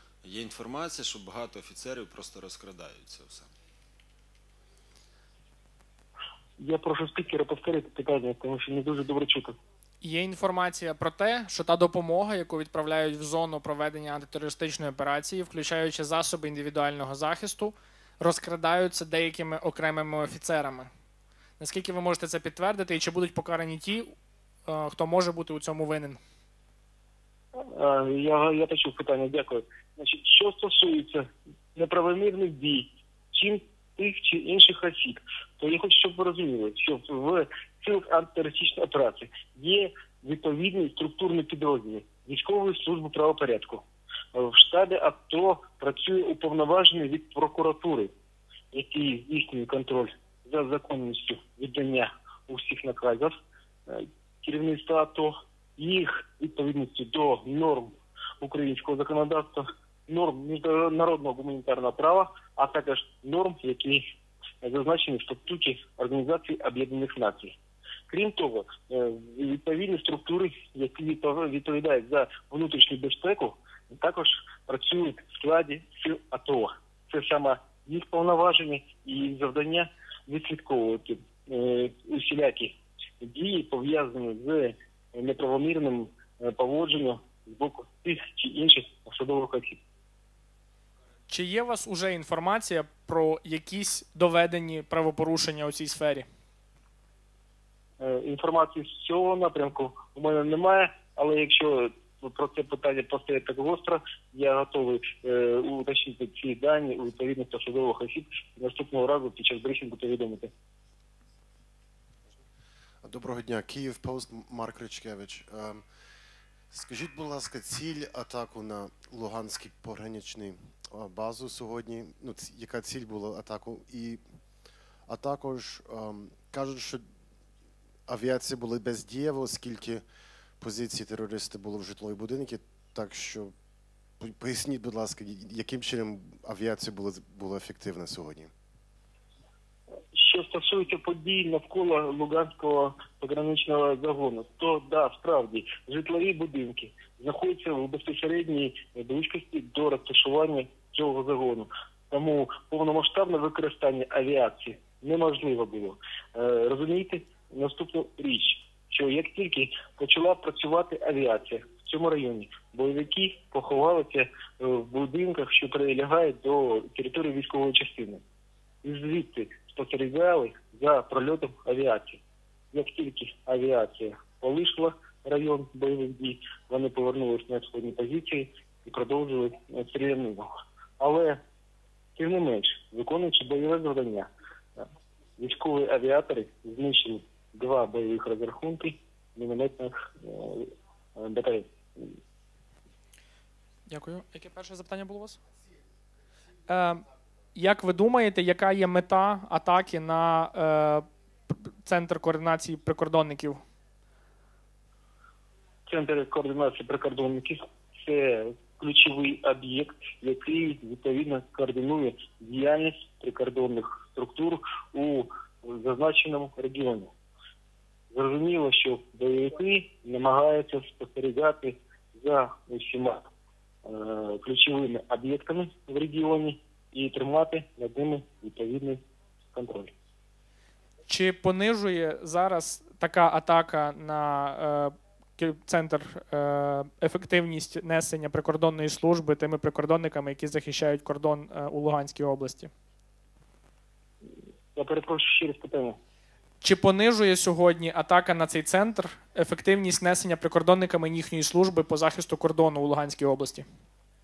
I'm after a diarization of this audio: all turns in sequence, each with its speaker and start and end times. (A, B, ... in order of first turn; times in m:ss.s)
0:00.2-0:03.5 A
0:06.6-0:09.6 B
0:10.0-0:20.9 C
0:21.6-0:24.1 C
0:24.7-0:26.2 C
0:27.6-0:48.1 B
0:48.7-0:53.3 B
0:53.9-1:04.0 B
1:04.6-1:07.6 B
1:08.1-1:29.8 B
1:31.3-1:36.3 C
1:38.0-1:50.5 B
1:53.0-1:55.8 D
1:56.7-2:04.2 D
2:05.1-2:07.0 D
2:08.1-2:10.0 D
2:10.6-2:13.5 D
2:14.2-2:18.5 D
2:20.1-2:48.2 B
2:48.8-3:00.5 B
3:01.0-3:01.4 B
3:02.2-3:04.3 B
3:05.4-3:12.2 B
3:13.9-3:15.4 C
3:16.7-3:23.6 C
3:25.9-3:37.1 B
3:38.1-3:43.3 B
3:43.8-3:49.0 B
3:49.5-3:49.9 B
3:51.1-4:02.7 C
4:04.8-4:06.0 B
4:06.6-4:13.7 C